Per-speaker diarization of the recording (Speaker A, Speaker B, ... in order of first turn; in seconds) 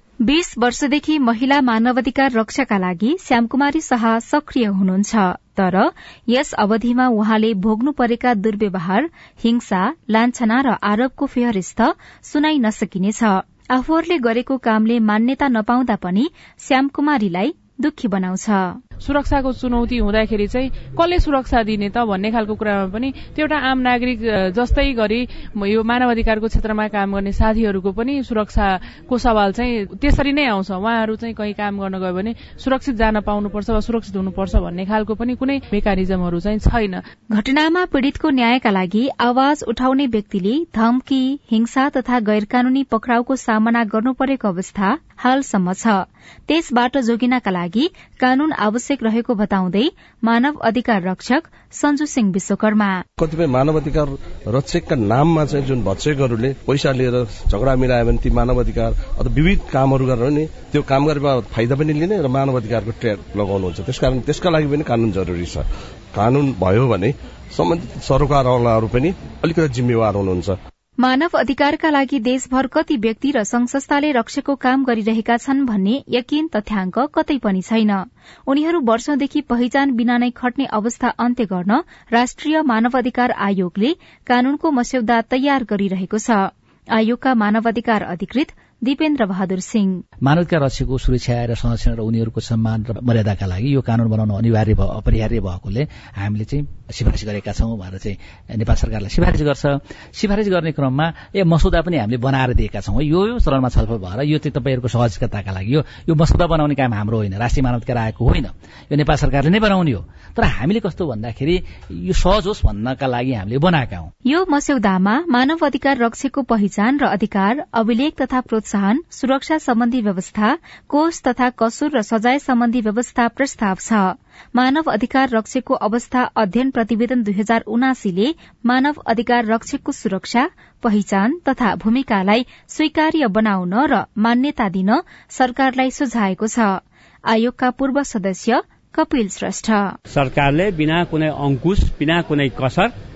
Speaker A: 0.2-18.8, 37.3-53.0, 71.0-90.0, 114.2-139.9
Speaker B: 19.0-37.0
Speaker C: 53.2-70.6
Speaker D: 90.2-114.1
Speaker E: 140.1-142.9